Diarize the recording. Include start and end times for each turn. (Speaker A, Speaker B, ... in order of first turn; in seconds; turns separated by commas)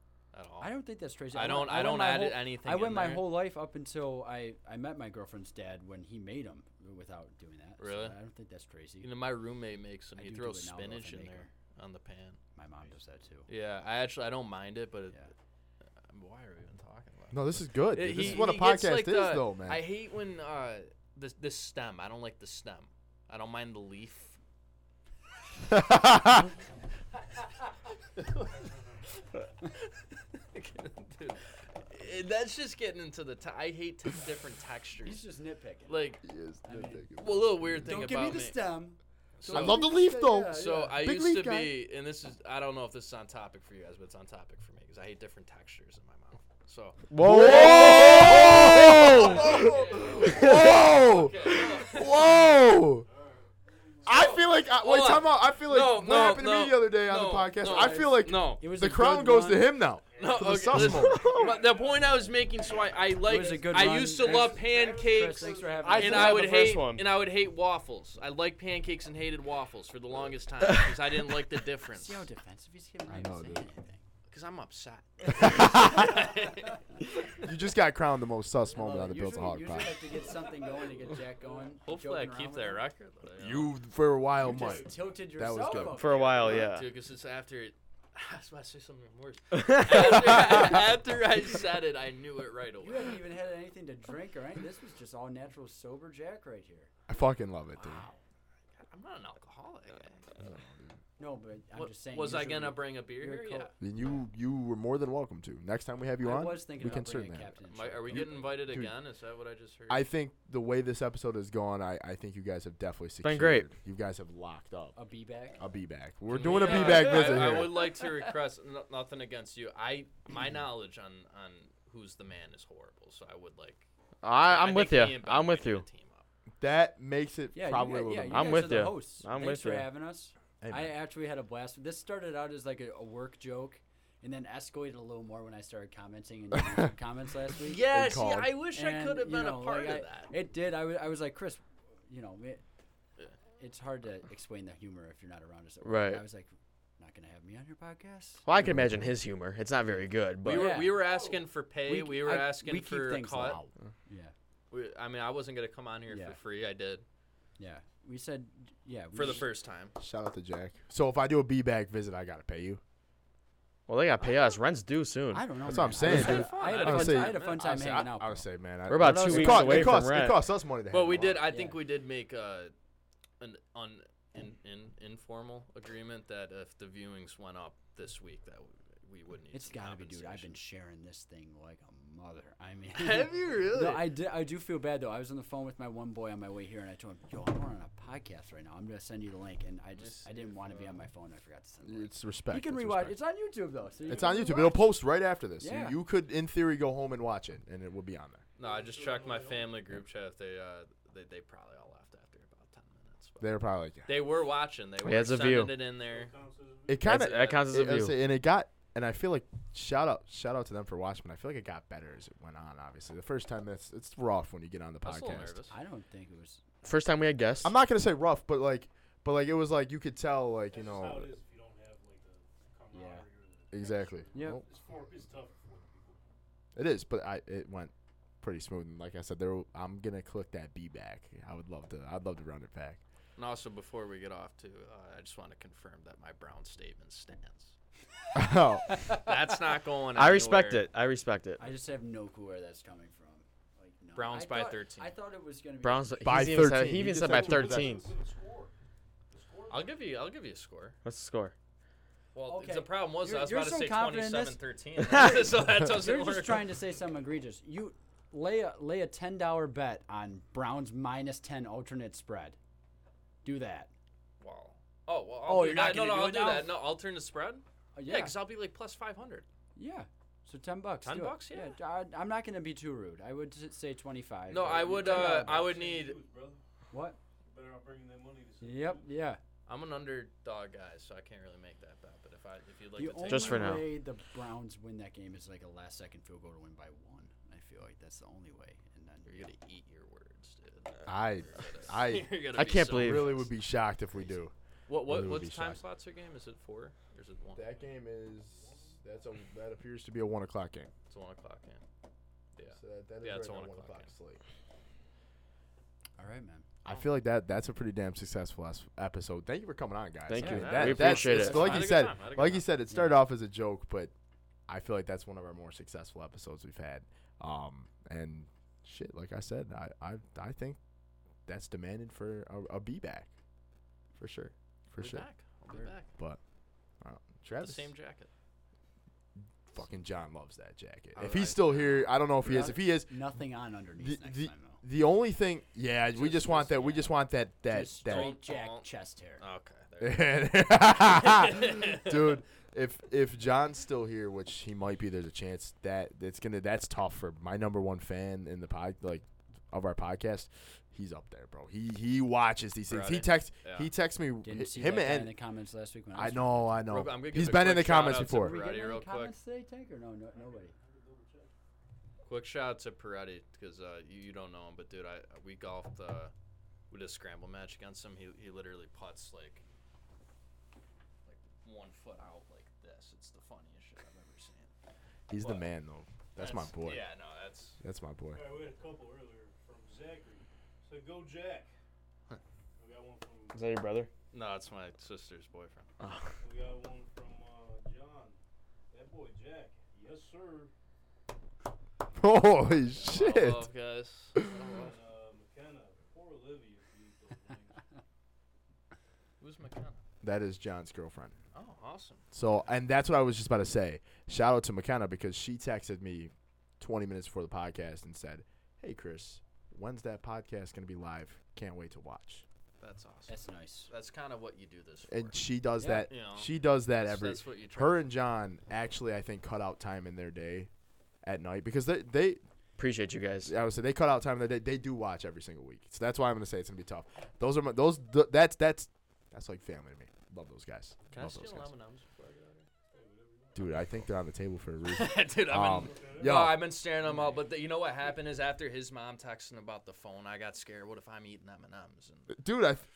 Speaker A: 0.3-0.7, Speaker B: 0.6-9.1, Speaker A: 1.3-3.3, Speaker A: 7.8-8.2, Speaker A: 9.0-12.4, Speaker B: 10.2-11.5, Speaker B: 12.6-13.5, Speaker A: 13.5-15.2, Speaker A: 16.1-24.4, Speaker C: 17.3-19.8, Speaker C: 25.7-26.5, Speaker A: 28.2-28.6, Speaker D: 28.6-29.0, Speaker A: 30.4-35.2, Speaker B: 35.0-37.1, Speaker A: 35.9-36.2, Speaker C: 36.2-38.1, Speaker A: 37.2-38.6, Speaker B: 37.8-41.0, Speaker A: 39.4-39.9, Speaker C: 39.5-41.7, Speaker A: 40.5-52.5, Speaker E: 47.1-49.5, Speaker C: 47.2-53.1, Speaker D: 49.4-50.3, Speaker D: 53.1-54.4, Speaker C: 54.1-61.6, Speaker A: 54.1-58.6, Speaker B: 57.6-59.8, Speaker D: 60.1-66.7, Speaker A: 60.2-72.2, Speaker B: 63.2-66.5, Speaker E: 65.8-67.1, Speaker B: 71.9-74.0, Speaker C: 73.1-73.7, Speaker A: 74.3-76.8, Speaker B: 75.4-76.5, Speaker C: 75.4-76.3, Speaker C: 77.3-80.0, Speaker B: 78.7-82.8, Speaker A: 81.8-83.7, Speaker C: 83.4-86.0, Speaker D: 84.4-84.8, Speaker B: 84.5-86.8, Speaker E: 86.0-86.9, Speaker A: 86.2-93.2, Speaker E: 89.5-90.2, Speaker C: 90.4-90.6, Speaker B: 92.8-96.9, Speaker C: 97.1-98.1, Speaker B: 97.8-98.2, Speaker A: 98.8-100.2, Speaker C: 100.4-101.0, Speaker B: 101.2-103.8, Speaker A: 101.8-103.7, Speaker C: 103.8-107.6, Speaker B: 106.2-108.5, Speaker A: 107.7-110.0, Speaker C: 108.1-109.0, Speaker C: 109.9-115.0, Speaker E: 113.2-113.7, Speaker B: 115.0-115.6, Speaker C: 115.6-117.8, Speaker A: 116.3-126.3, Speaker B: 116.4-118.3, Speaker E: 124.2-125.8, Speaker C: 126.6-128.9, Speaker B: 127.5-137.8, Speaker E: 128.3-129.9, Speaker C: 130.6-130.9, Speaker C: 136.6-136.8, Speaker A: 137.6-140.3, Speaker C: 137.9-138.5, Speaker B: 138.7-142.6, Speaker B: 143.6-148.5, Speaker E: 145.8-146.2, Speaker E: 148.4-150.8, Speaker C: 148.6-149.1, Speaker A: 150.4-153.6, Speaker B: 150.4-151.1, Speaker D: 151.0-151.5, Speaker B: 151.8-154.3, Speaker A: 154.7-157.1, Speaker B: 156.1-156.4, Speaker B: 157.6-159.5, Speaker A: 159.1-159.9, Speaker C: 160.0-162.8, Speaker E: 163.9-165.5, Speaker B: 165.3-170.1, Speaker C: 165.7-171.5, Speaker E: 166.0-166.3, Speaker A: 166.0-167.7, Speaker E: 168.9-170.4, Speaker A: 170.9-172.7, Speaker B: 171.4-171.8, Speaker A: 173.4-180.6, Speaker B: 179.5-195.0, Speaker A: 182.9-184.1, Speaker A: 190.0-190.9, Speaker C: 191.8-193.2, Speaker D: 194.1-194.3, Speaker C: 194.1-198.4, Speaker B: 195.6-196.0, Speaker A: 198.6-203.6, Speaker D: 198.6-199.8, Speaker C: 203.4-204.3, Speaker A: 204.1-206.3, Speaker E: 205.0-205.8, Speaker D: 206.0-207.1, Speaker C: 206.9-215.6, Speaker E: 207.0-208.2, Speaker A: 207.1-207.7, Speaker A: 215.0-215.8, Speaker B: 215.7-216.9, Speaker E: 216.8-217.7, Speaker C: 217.6-221.3, Speaker D: 220.7-226.3, Speaker B: 222.9-223.3, Speaker C: 223.7-224.6, Speaker B: 224.3-224.6, Speaker C: 226.8-233.0, Speaker A: 233.4-237.8, Speaker C: 238.3-239.0, Speaker B: 238.9-239.3, Speaker A: 239.0-240.9, Speaker E: 240.2-241.6, Speaker B: 241.6-246.9, Speaker A: 244.2-245.1, Speaker E: 245.8-248.1, Speaker C: 246.2-248.0, Speaker D: 247.0-248.8, Speaker D: 249.3-250.0, Speaker A: 249.7-251.0, Speaker E: 251.0-251.5, Speaker A: 252.3-256.8, Speaker B: 252.5-262.6, Speaker B: 263.4-263.9, Speaker A: 264.4-269.5, Speaker B: 265.5-266.7, Speaker B: 267.9-268.4, Speaker B: 269.8-275.7, Speaker A: 271.0-271.8, Speaker A: 274.5-276.2, Speaker D: 274.6-276.6, Speaker B: 276.9-277.2, Speaker D: 277.5-279.1, Speaker B: 278.6-279.4, Speaker A: 279.7-283.8, Speaker B: 283.0-289.5, Speaker E: 283.3-283.9, Speaker A: 289.3-293.5, Speaker C: 291.1-295.8, Speaker E: 292.5-293.4, Speaker A: 294.9-297.8, Speaker C: 297.6-300.9, Speaker D: 297.8-299.0, Speaker A: 301.1-301.8, Speaker A: 302.6-304.1, Speaker C: 302.8-304.4, Speaker B: 306.2-306.7, Speaker C: 306.9-314.1, Speaker E: 310.3-311.9, Speaker B: 310.4-311.8, Speaker A: 310.4-312.7, Speaker B: 312.9-313.2, Speaker C: 314.7-320.8, Speaker C: 321.5-323.3, Speaker C: 324.2-325.2, Speaker A: 325.0-326.1, Speaker C: 326.1-326.4, Speaker C: 327.0-327.9, Speaker A: 327.6-328.3, Speaker C: 329.7-333.2, Speaker A: 331.1-332.1, Speaker B: 332.4-334.8, Speaker C: 334.0-338.3, Speaker B: 337.6-339.4, Speaker A: 338.1-338.9, Speaker A: 339.4-342.4, Speaker C: 340.0-355.4, Speaker A: 352.9-353.9, Speaker B: 354.4-356.9, Speaker C: 356.1-358.6, Speaker A: 356.9-359.3, Speaker B: 358.3-360.8, Speaker D: 360.3-361.5, Speaker A: 362.2-366.3, Speaker A: 366.9-369.6, Speaker A: 371.2-374.7, Speaker C: 375.3-377.1, Speaker A: 375.4-375.7, Speaker A: 376.4-377.8, Speaker C: 377.8-378.4, Speaker D: 378.3-381.7, Speaker D: 382.8-383.7, Speaker E: 383.5-384.1, Speaker A: 384.3-385.9, Speaker E: 386.0-386.3, Speaker D: 386.4-388.4, Speaker D: 388.9-390.7, Speaker C: 392.1-393.7, Speaker A: 393.0-394.9, Speaker D: 394.4-397.8, Speaker A: 399.4-400.0, Speaker C: 400.2-401.4, Speaker A: 401.5-402.2, Speaker C: 402.3-412.4, Speaker A: 412.8-413.4, Speaker B: 413.3-413.9, Speaker A: 413.9-415.4, Speaker C: 415.1-420.7, Speaker B: 415.8-416.1, Speaker A: 416.1-418.1, Speaker C: 421.2-422.4, Speaker E: 422.8-423.5, Speaker C: 423.4-431.7, Speaker A: 431.1-432.7, Speaker D: 432.9-433.8, Speaker C: 433.6-436.7, Speaker A: 434.9-442.3, Speaker D: 435.7-436.4, Speaker C: 442.3-442.9